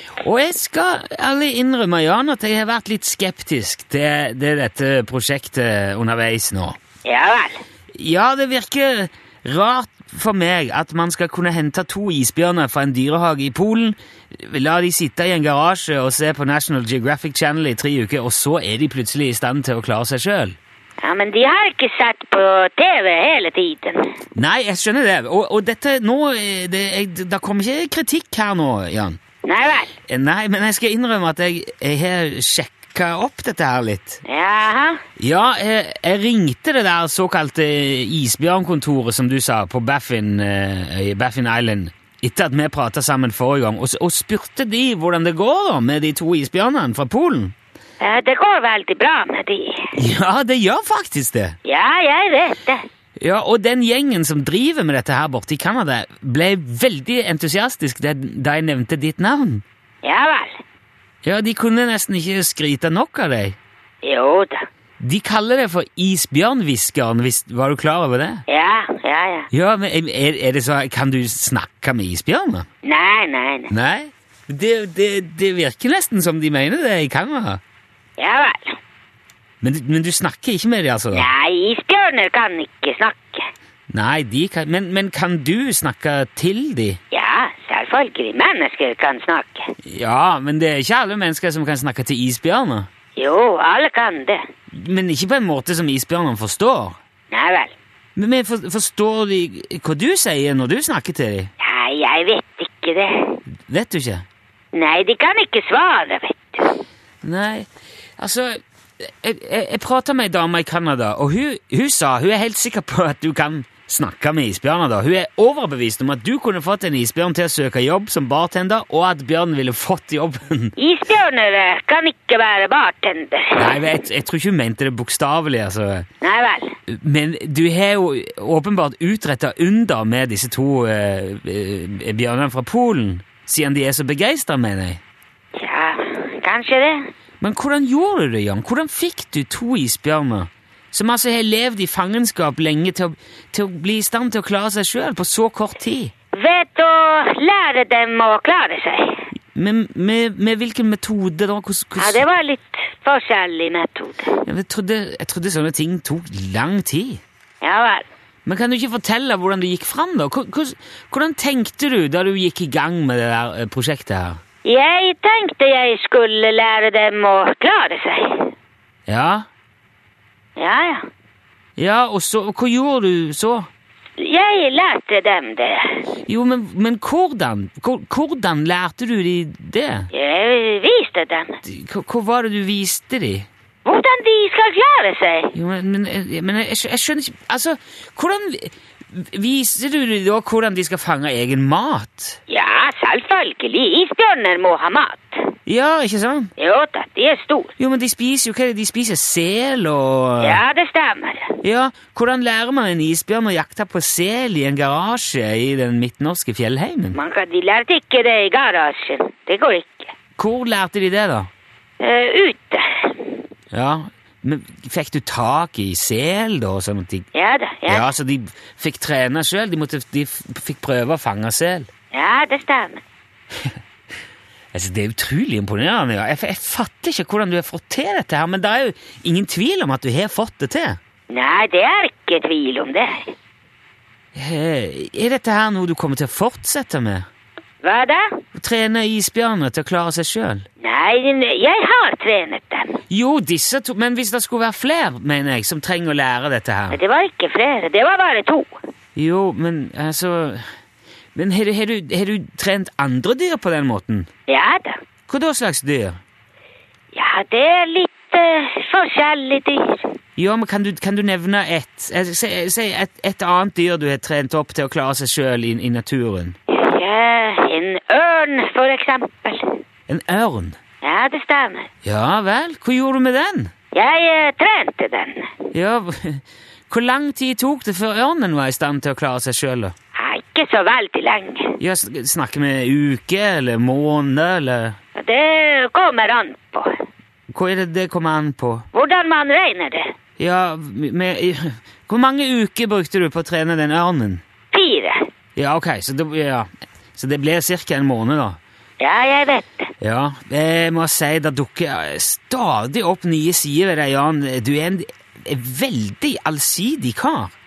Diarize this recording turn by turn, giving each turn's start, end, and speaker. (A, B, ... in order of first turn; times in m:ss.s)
0:00.2-0:06.8 A
0:07.0-0:07.6 B
0:08.0-0:20.6 A
0:21.0-0:24.1 B
0:24.4-0:29.2 A
0:29.4-0:29.9 B
0:30.1-0:34.2 A
0:34.2-0:35.0 B
0:35.2-0:47.6 A
0:48.0-0:50.0 B
0:50.0-0:51.6 A
0:51.6-0:52.8 B
0:53.2-0:59.6 A
1:00.0-1:00.6 B
1:01.2-1:03.6 A
1:04.0-1:04.7 B
1:05.0-1:08.4 A
1:08.5-1:09.5 B
1:09.5-1:12.7 A
1:12.8-1:13.7 B
1:13.7-1:17.6 A
1:18.2-1:18.8 B
1:19.6-1:21.3 A
1:21.1-1:23.5 B
1:23.9-1:27.0 A
1:27.1-1:29.7 B
1:29.8-1:32.9 A
1:33.2-1:34.4 B
1:34.7-1:37.0 A
1:37.3-1:37.7 B
1:38.2-1:41.5 A
1:41.6-1:43.4 B
1:43.7-1:44.2 A
1:44.7-1:46.8 B
1:47.2-2:00.8 A
2:00.8-2:03.8 B
2:03.6-2:06.1 A
2:06.2-2:06.7 B
2:06.9-2:15.0 A
2:15.6-2:17.1 B
2:17.4-2:26.1 A
2:26.3-2:29.3 B
2:29.6-2:32.2 A
2:32.0-2:34.4 B
2:34.4-2:37.2 A
2:37.6-2:38.0 B
2:38.5-2:44.4 A
2:44.6-2:48.5 B
2:49.1-2:49.4 A
2:50.6-2:51.0 B
2:51.8-2:53.7 A
2:54.2-2:56.0 B
2:56.3-3:00.1 A
3:00.1-3:01.6 B
3:01.6-3:03.5 A
3:03.9-3:05.6 B
3:05.5-3:12.4 A
3:12.5-3:15.5 B
3:15.7-3:16.5 A
3:16.6-3:17.7 B
3:17.8-3:20.6 A
3:20.4-3:21.6 B
3:21.6-3:27.2 A
3:27.1-3:30.1 B
3:30.4-3:31.5 A
3:32.0-3:33.4 B
3:33.7-3:37.2 A
3:37.3-3:38.1 B
3:37.9-3:41.9 A
3:42.1-3:43.0 B
3:44.7-3:51.0 A
3:51.3-3:53.3 B
3:54.4-3:57.3 A
3:57.8-3:58.4 B
3:58.6-4:00.6 A
4:00.8-4:03.0 B
4:03.1-4:07.0 A
4:06.9-4:08.8 B
4:09.2-4:10.6 A
4:11.4-4:14.3 A
4:14.5-4:15.0 B
4:15.3-4:16.2 A
4:17.1-4:20.1 B
4:20.4-4:26.6 A
4:26.7-4:29.8 B
4:30.1-4:30.8 A
4:31.0-4:31.9 B
4:32.0-4:33.7 A
4:33.9-4:35.5 B
4:35.7-4:39.9 A
4:40.2-4:41.8 B
4:41.8-4:45.0 A
4:45.2-4:47.0 B
4:47.5-4:48.8 A
4:48.9-4:50.1 B
4:50.4-4:54.4 A
4:54.7-4:55.2 B
4:55.6-4:58.6 A
4:59.0-4:59.9 B
5:00.0-5:07.5 A